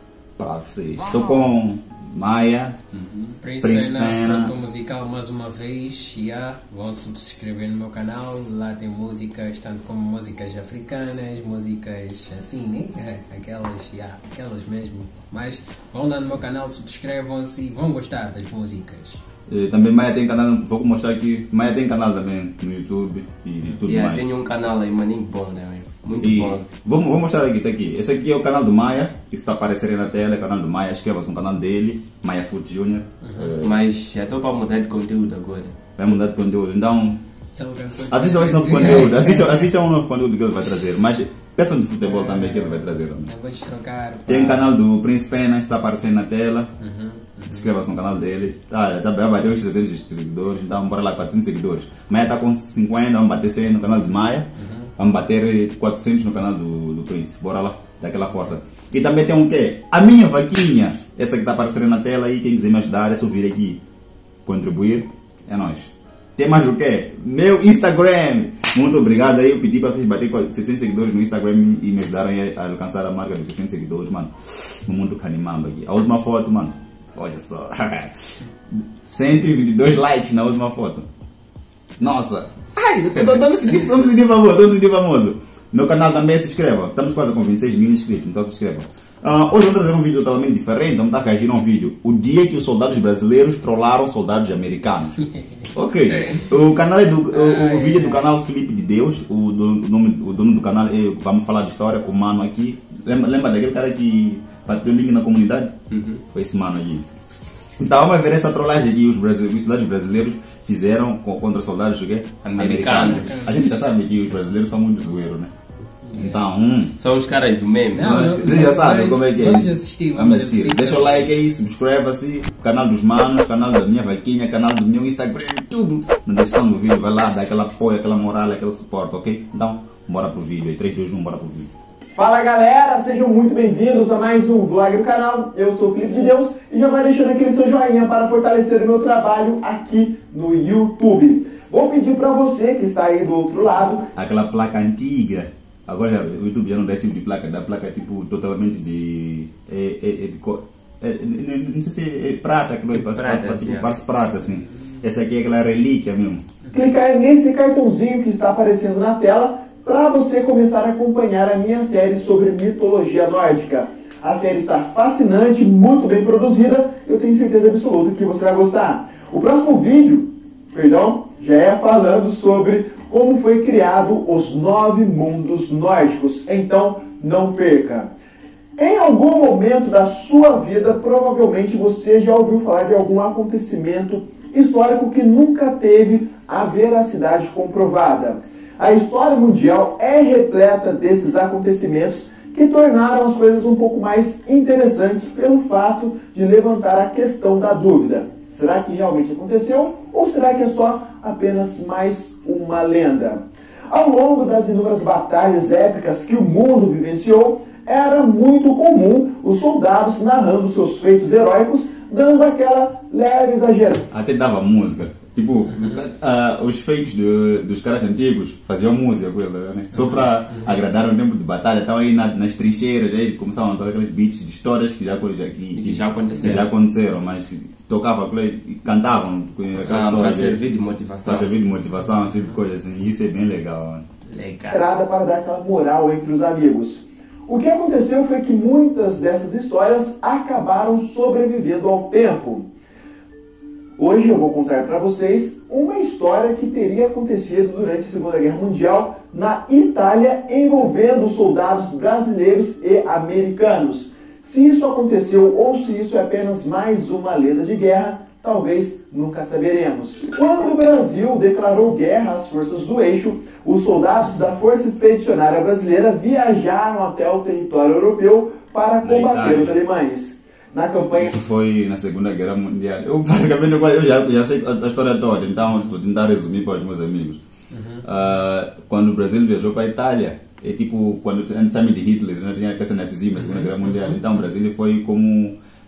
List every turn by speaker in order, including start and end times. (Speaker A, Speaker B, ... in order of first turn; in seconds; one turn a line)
Speaker A: 0.4-2.8
Speaker B: 2.9-3.4
Speaker C: 3.4-19.2
Speaker A: 3.6-4.5
Speaker A: 19.5-24.3
Speaker B: 23.8-26.7
Speaker A: 26.2-33.8
Speaker C: 33.2-33.5
Speaker B: 33.6-35.8
Speaker A: 36.0-37.2
Speaker C: 37.6-39.6
Speaker A: 38.0-43.3
Speaker C: 42.0-44.7
Speaker A: 44.3-46.7
Speaker C: 46.8-47.8
Speaker A: 47.5-63.8
Speaker C: 54.5-54.9
Speaker A: 64.5-78.4
Speaker A: 79.0-81.1
Speaker A: 82.0-105.7
Speaker C: 96.2-96.6
Speaker C: 97.3-98.2
Speaker B: 105.9-106.2
Speaker A: 106.3-107.0
Speaker A: 107.8-115.5
Speaker B: 112.4-113.4
Speaker C: 113.0-113.6
Speaker C: 116.1-116.5
Speaker A: 116.1-117.0
Speaker B: 117.0-118.6
Speaker C: 117.9-121.3
Speaker A: 118.0-131.7
Speaker D: 132.2-144.1
Speaker A: 144.2-156.4
Speaker B: 152.9-153.9
Speaker D: 156.7-178.1
Speaker D: 178.8-214.0
Speaker A: 214.1-230.6
Speaker C: 215.7-216.0
Speaker C: 219.9-220.7
Speaker B: 225.8-226.7
Speaker B: 229.8-231.5
Speaker A: 231.2-234.0
Speaker B: 234.3-234.8
Speaker D: 234.7-242.7
Speaker D: 244.0-271.3
Speaker A: 269.0-269.8
Speaker A: 271.1-277.4
Speaker C: 277.7-278.0
Speaker A: 278.0-285.6
Speaker C: 283.5-284.2